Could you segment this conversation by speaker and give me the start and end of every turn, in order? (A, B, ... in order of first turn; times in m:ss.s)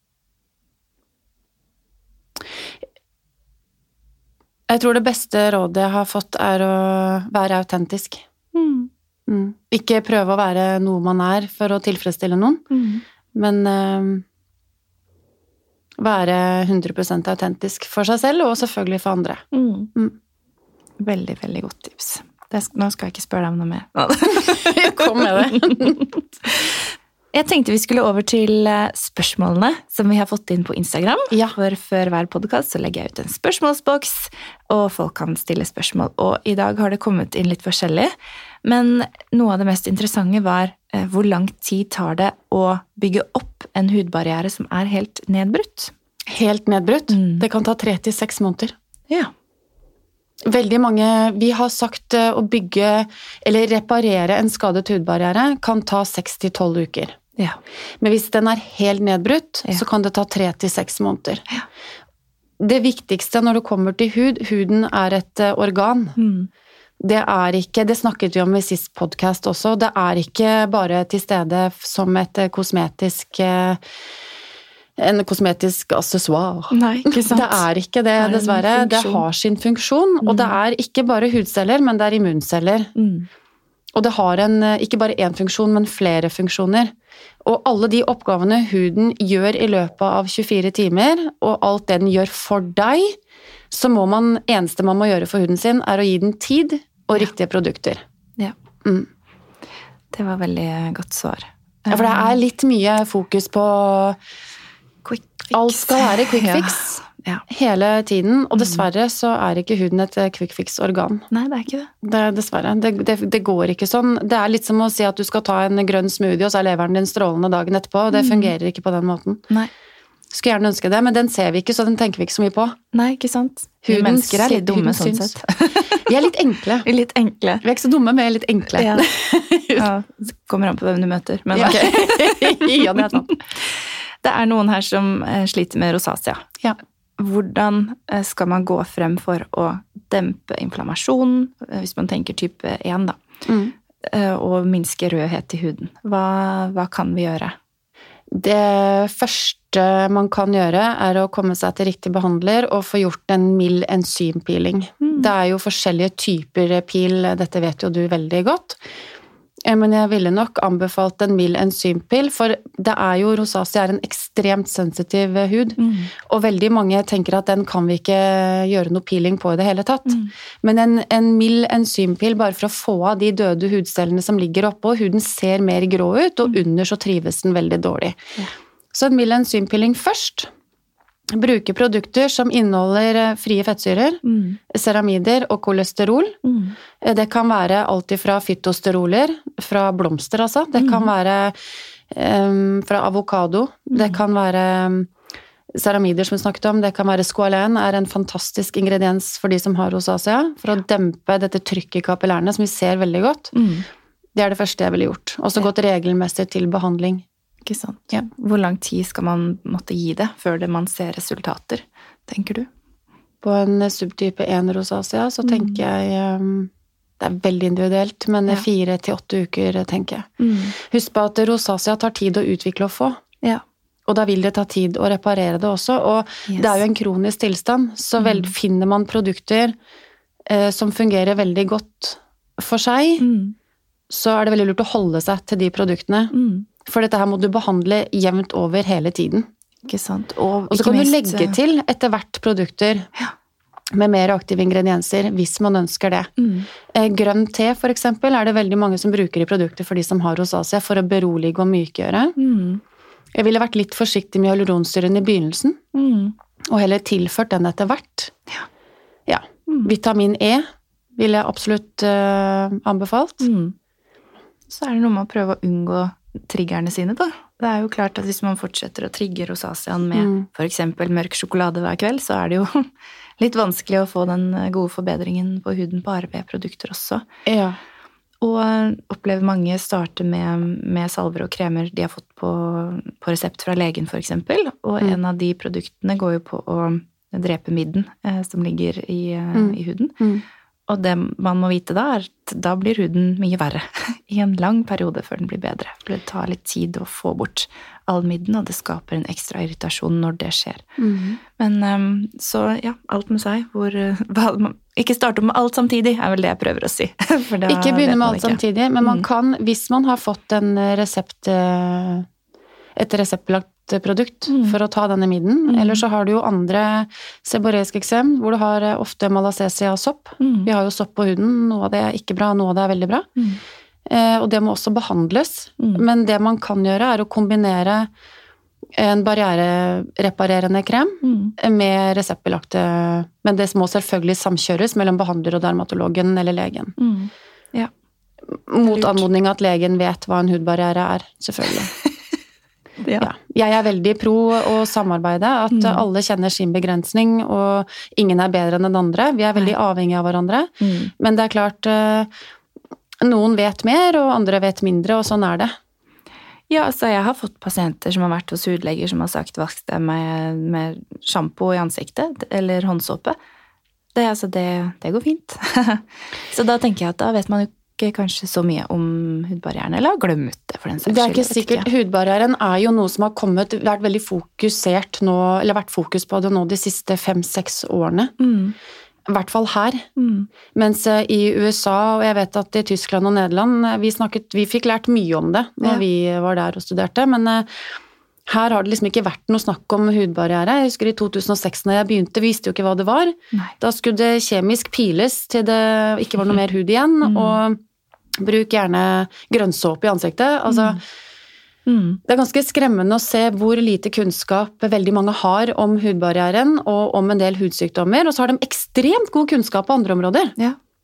0:04.7-0:08.2 A
0:08.5-0:08.9 B
0:09.3-0:12.6 A
0:12.7-0:13.0 B
0:13.4-0:14.2 A
0:16.0-0:19.4 A
0:19.5-0:19.9 B
0:21.0-0:38.1 B
0:24.4-0:26.1 A
0:31.3-0:31.6 A
0:38.6-0:45.9 B
0:46.3-0:48.8 A
0:47.1-0:47.4 B
0:50.5-0:57.2 A
0:58.0-1:01.5 A
1:02.6-1:06.2 A
1:06.2-1:06.5 B
1:07.0-1:13.8 A
1:15.0-1:22.9 A
1:16.7-1:17.6 B
1:18.2-1:19.2 B
1:20.2-1:20.6 B
1:23.0-1:23.3 B
1:24.0-1:26.9 A
1:27.4-1:33.2 A
1:33.7-1:38.0 A
1:38.8-1:39.1 A
1:40.1-1:42.4 B
1:41.9-1:44.2 A
1:45.0-1:47.4 B
1:45.5-1:51.3 A
1:48.6-1:48.8 B
1:51.3-1:51.9 B
1:52.0-1:59.4 A
1:58.1-1:58.5 B
2:00.3-2:02.8 A
2:02.9-2:06.0 B
2:03.9-2:06.9 A
2:06.8-2:07.6 B
2:07.6-2:09.9 A
2:08.8-2:09.1 B
2:09.8-2:16.4 B
2:11.5-2:13.4 A
2:17.2-2:23.2 B
2:23.5-2:23.7 A
2:24.0-2:27.6 B
2:28.3-2:38.8 A
2:35.0-2:35.3 B
2:39.7-2:58.2 A
2:45.8-2:46.1 B
2:58.9-3:00.5 A
3:01.3-3:06.4 A
3:04.2-3:04.6 B
3:06.4-3:06.8 B
3:07.0-3:11.6 A
3:10.8-3:11.1 B
3:12.1-3:15.1 A
3:13.9-3:14.2 B
3:15.8-3:23.6 A
3:23.5-3:23.9 B
3:24.4-3:27.2 A
3:27.6-3:32.7 B
3:33.4-3:43.2 A
3:35.4-3:35.8 B
3:40.4-3:40.8 B
3:44.1-3:49.8 A
3:46.5-3:46.7 B
3:48.2-3:48.5 B
3:50.5-3:53.3 A
3:53.2-3:53.6 B
3:54.1-3:56.3 A
3:56.3-3:56.7 B
3:56.8-3:59.5 A
3:59.8-4:01.6 B
4:00.7-4:03.1 A
4:03.9-4:06.3 A
4:06.4-4:06.7 B
4:06.9-4:12.4 A
4:12.4-4:12.8 B
4:13.4-4:15.8 A
4:15.9-4:16.4 B
4:16.7-4:18.3 A
4:19.3-4:20.7 A
4:21.2-4:23.5 A
4:23.4-4:23.8 B
4:24.7-4:37.2 B
4:30.2-4:30.5 A
4:37.5-4:37.8 A
4:38.4-4:50.2 B
4:49.6-4:50.4 A
4:50.9-5:00.8 B
5:01.0-5:01.4 A
5:01.6-5:09.2 B
5:07.7-5:12.3 A
5:13.0-5:23.3 A
5:14.5-5:14.8 B
5:15.7-5:16.0 B
5:20.4-5:20.7 B
5:24.1-5:28.1 A
5:25.8-5:26.0 B
5:29.0-5:37.0 A
5:31.2-5:31.6 B
5:37.0-5:37.9 B
5:38.7-5:41.9 A
5:38.8-5:39.3 B
5:43.0-5:43.3 B
5:43.2-5:52.3 A
5:45.7-5:46.0 B
5:50.8-5:51.1 B
5:53.2-5:55.7 A
5:56.7-6:03.4 B
6:04.2-6:11.9 B
6:11.1-6:18.4 A
6:18.4-6:18.8 B
6:19.3-6:20.1 A
6:20.2-6:20.5 B
6:20.7-6:27.7 A
6:28.5-6:37.8 A
6:37.2-6:37.6 B
6:38.4-6:41.0 A
6:40.7-6:41.0 B
6:41.9-6:42.2 B
6:42.3-6:50.5 A